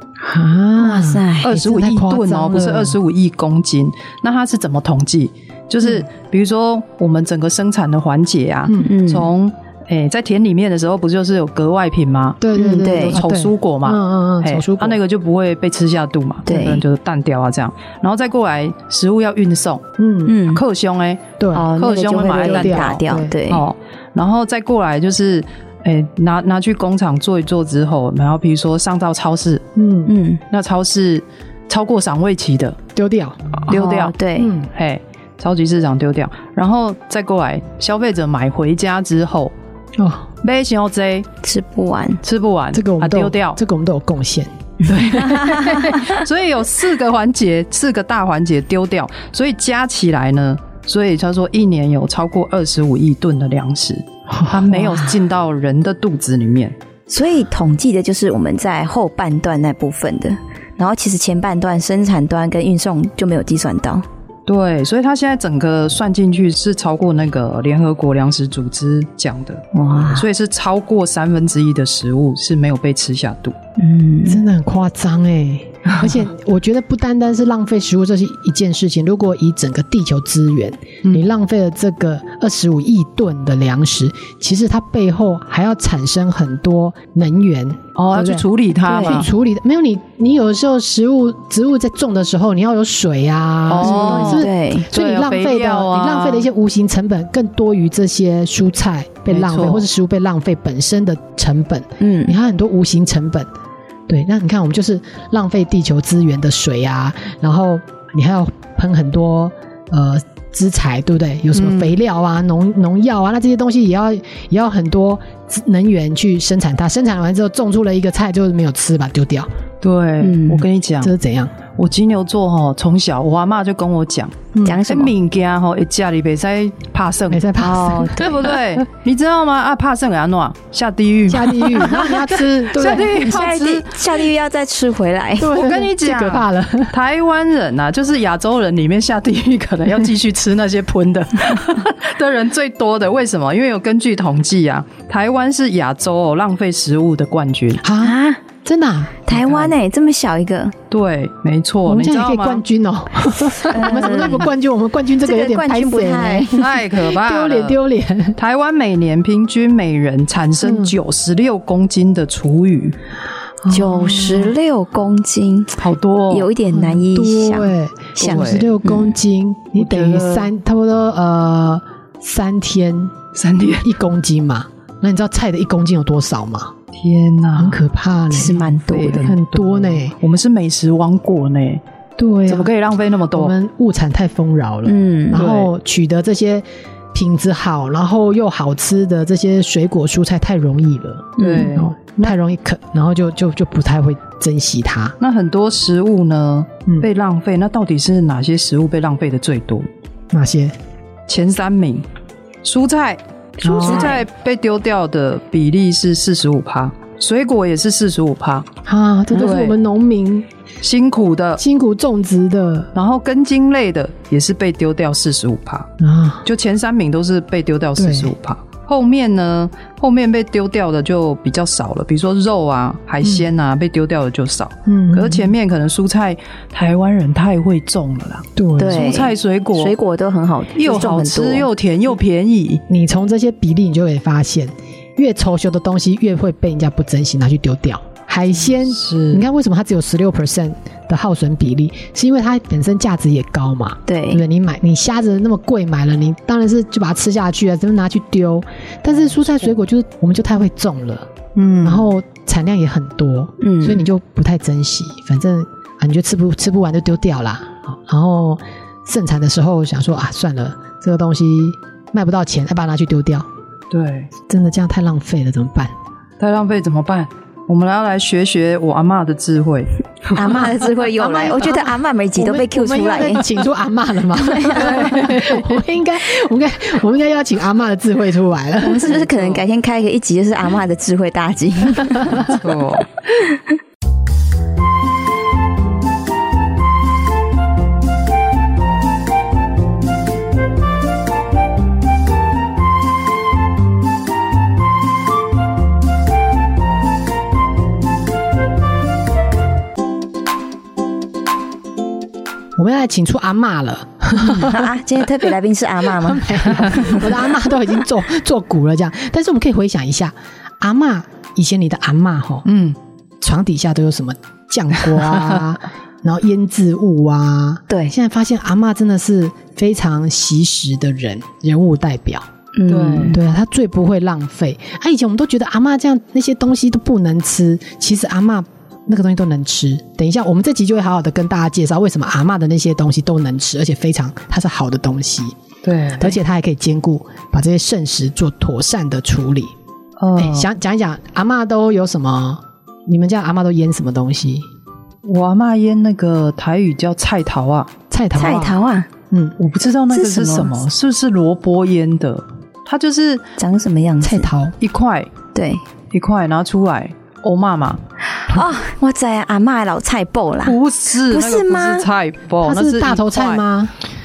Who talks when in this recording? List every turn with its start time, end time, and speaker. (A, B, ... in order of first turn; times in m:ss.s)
0:00.2-0:03.0 A
0:00.8-0:01.5 B
0:01.4-0:19.8 C
0:08.7-0:09.3 B
0:12.4-0:15.0 A
0:12.6-0:13.2 B
0:16.5-0:16.8 B
0:20.0-0:20.4 A
0:20.3-0:20.6 B
0:20.5-0:29.6 C
0:21.4-0:21.7 A
0:21.5-0:23.6 B
0:22.4-0:23.4 A
0:29.8-0:30.1 A
0:30.1-0:30.4 B
0:30.5-0:32.8 C
0:33.0-0:33.8 A
0:33.7-0:34.2 C
0:33.7-0:34.5 B
0:34.4-0:34.7 A
0:34.7-0:39.5 C
0:40.0-0:40.3 A
0:40.4-0:41.3 C
0:41.4-0:42.2 B
0:42.2-0:43.6 C
0:42.7-0:44.5 A
0:44.8-0:56.8 C
0:45.5-0:46.0 B
0:57.1-1:04.1 B
1:04.5-1:13.6 C
1:09.7-1:10.3 B
1:13.8-1:14.4 B
1:14.3-1:28.4 A
1:28.0-1:29.3 C
1:28.8-1:29.2 B
1:29.0-1:43.5 A
1:33.7-1:36.5 C
1:33.8-1:34.9 B
1:39.3-1:39.9 C
1:42.0-1:42.4 B
1:44.1-1:59.5 A
1:51.5-1:51.9 C
1:59.8-2:01.1 C
2:00.2-2:00.6 B
2:01.0-2:01.5 A
2:01.7-2:14.2 C
2:04.5-2:04.8 A
2:04.6-2:05.1 B
2:07.3-2:08.3 A
2:07.6-2:08.5 B
2:11.3-2:13.1 A
2:12.8-2:15.6 B
2:15.4-2:17.0 A
2:15.5-2:27.8 C
2:27.8-2:29.3 A
2:28.0-2:28.4 B
2:29.3-2:30.8 B
2:29.3-2:29.7 C
2:30.9-2:32.6 C
2:31.9-2:38.4 A
2:33.7-2:34.5 B
2:35.2-2:36.6 B
2:36.6-2:37.8 C
2:38.4-2:43.0 C
2:40.6-2:41.0 A
2:43.6-2:44.5 A
2:43.7-2:45.8 B
2:45.8-2:46.5 C
2:46.3-2:49.1 B
2:46.7-2:53.2 A
2:48.2-2:48.7 C
2:49.8-2:50.5 C
2:53.4-2:53.9 C
2:53.8-2:56.8 A
2:57.0-2:57.8 C
2:57.6-3:00.2 A
2:58.3-2:59.2 B
2:58.8-3:03.6 C
3:02.4-3:02.7 A
3:03.3-3:15.2 A
3:04.9-3:05.4 B
3:05.4-3:05.7 C
3:11.4-3:11.7 B
3:11.4-3:12.4 C
3:15.2-3:19.9 C
3:20.3-3:20.8 A
3:21.3-3:22.0 C
3:22.6-3:28.7 C
3:23.6-3:24.2 A
3:23.7-3:24.2 B
3:28.9-3:30.5 A
3:29.3-3:29.8 C
3:30.8-3:31.6 C
3:31.6-3:32.9 A
3:33.0-3:35.9 C
3:36.0-3:36.5 A
3:36.4-3:50.0 C
3:38.0-3:38.3 A
3:44.9-3:45.5 A
3:48.6-3:49.1 A
3:48.8-3:51.7 B
3:50.8-3:52.8 C
3:52.9-4:11.3 A
3:58.6-3:59.4 C
4:04.1-4:04.4 B
4:11.6-4:12.1 C
4:11.8-4:23.5 A
4:13.6-4:14.0 B
4:23.9-4:24.3 C
4:24.5-4:25.9 A
4:26.4-4:30.7 C
4:30.3-4:33.5 B
4:31.1-4:39.3 A
4:34.5-4:35.0 B
4:34.8-4:35.7 C
4:38.8-4:42.6 B
4:39.3-4:39.6 C
4:42.4-4:43.1 C
4:43.3-4:43.6 B
5:02.8-5:04.9 A
5:04.4-5:07.2 B
5:06.2-5:12.6 A
5:12.7-5:13.0 C
5:13.4-5:22.5 A
5:22.8-5:23.4 B
5:22.9-5:23.4 C
5:23.3-5:35.6 A
5:35.8-5:36.4 C
5:36.2-5:39.7 A
5:40.2-5:40.7 C
5:40.4-5:44.7 A
5:45.2-5:47.9 C
5:48.1-5:48.8 A
5:48.4-5:49.1 B
5:49.3-5:49.6 A
5:49.6-5:53.5 C
5:50.1-5:50.8 B
5:53.6-5:54.5 B
5:54.2-5:54.8 A
5:54.8-5:55.3 C
5:55.5-5:55.8 B
5:56.1-5:58.0 C
5:58.4-6:02.1 B
6:00.6-6:03.6 C
6:02.6-6:03.9 A